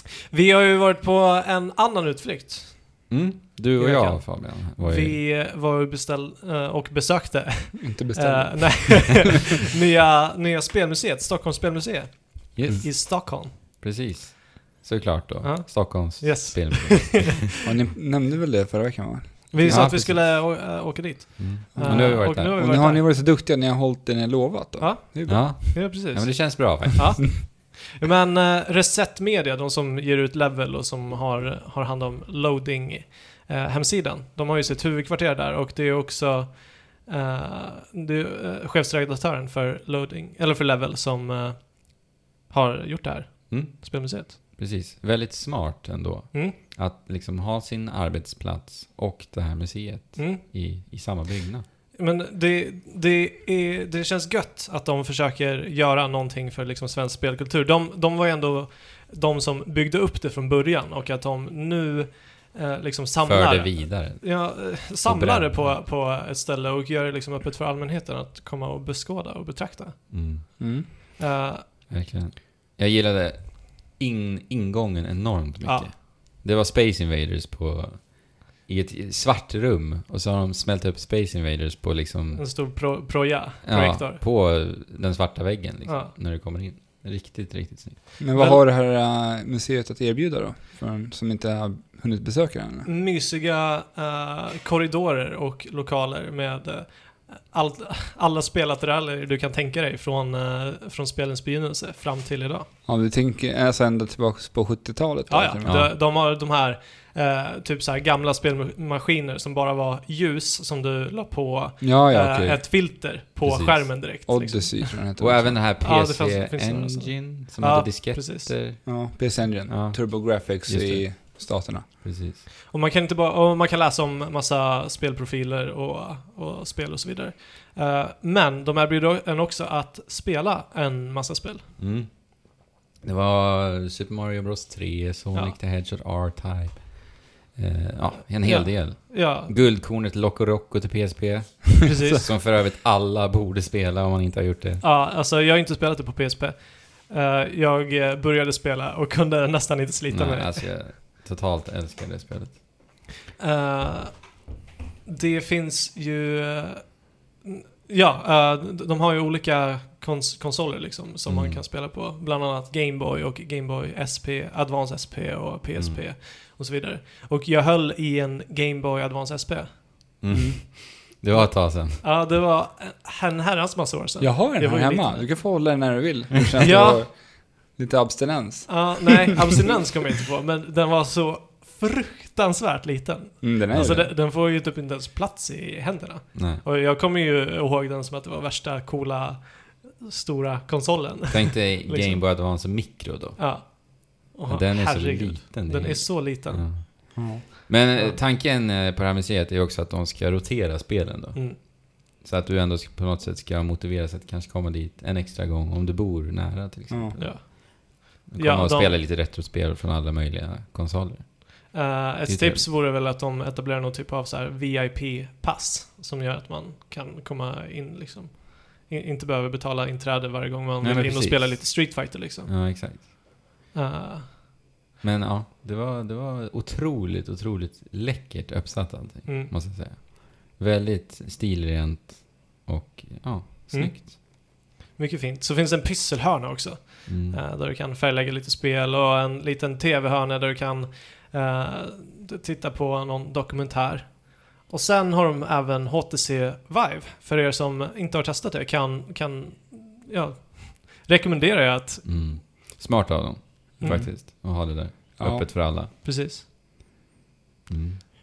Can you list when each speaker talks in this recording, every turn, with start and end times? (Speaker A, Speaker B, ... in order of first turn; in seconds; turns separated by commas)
Speaker A: 0.3-3.1, Speaker B: 3.1-5.2, Speaker A: 3.8-13.5, Speaker C: 7.8-9.2, Speaker B: 12.6-17.5, Speaker A: 15.4-17.3, Speaker C: 17.6-19.9, Speaker A: 19.5-23.0, Speaker B: 19.6-20.6, Speaker B: 21.4-22.6, Speaker C: 21.8-25.5, Speaker A: 24.8-44.4, Speaker B: 25.3-27.4, Speaker B: 43.5-51.7, Speaker A: 50.2-50.4, Speaker A: 51.9-70.6, Speaker B: 63.2-65.8, Speaker B: 70.1-71.2, Speaker C: 70.6-70.9, Speaker A: 71.2-71.7, Speaker B: 71.9-82.7, Speaker A: 75.6-75.9, Speaker A: 82.3-84.2, Speaker B: 83.6-88.0, Speaker A: 85.9-86.1, Speaker C: 88.2-92.9, Speaker A: 88.3-88.6, Speaker A: 92.8-102.7, Speaker C: 102.9-105.7, Speaker A: 105.3-115.0, Speaker B: 105.7-105.9, Speaker C: 111.8-112.6, Speaker B: 113.4-114.1, Speaker C: 114.3-115.6, Speaker B: 115.2-122.4, Speaker A: 115.8-118.5, Speaker C: 118.8-121.9, Speaker A: 122.7-131.7, Speaker B: 131.8-144.8, Speaker A: 138.4-139.7, Speaker A: 141.8-142.3, Speaker A: 144.8-150.7, Speaker B: 150.1-152.6, Speaker A: 153.4-154.4, Speaker A: 155.1-169.8, Speaker B: 161.2-161.6, Speaker B: 165.8-166.0, Speaker B: 170.2-172.0, Speaker C: 170.3-170.6, Speaker A: 171.3-175.3, Speaker C: 174.2-179.2, Speaker A: 176.6-177.1, Speaker A: 178.7-192.3, Speaker C: 183.4-184.1, Speaker B: 183.7-184.1, Speaker B: 186.3-186.6, Speaker B: 191.3-193.9, Speaker A: 193.4-196.7, Speaker B: 194.5-207.7, Speaker C: 197.2-197.4, Speaker C: 206.9-207.2, Speaker A: 207.2-209.0, Speaker B: 208.3-211.7, Speaker A: 211.7-222.5, Speaker B: 212.3-212.7, Speaker B: 220.8-223.1, Speaker A: 223.7-224.4, Speaker B: 225.0-234.1, Speaker A: 229.2-229.5, Speaker A: 233.7-252.2, Speaker B: 237.1-237.4, Speaker B: 252.0-255.9, Speaker A: 253.8-254.1, Speaker C: 253.8-255.5, Speaker A: 255.8-256.4, Speaker B: 257.7-258.0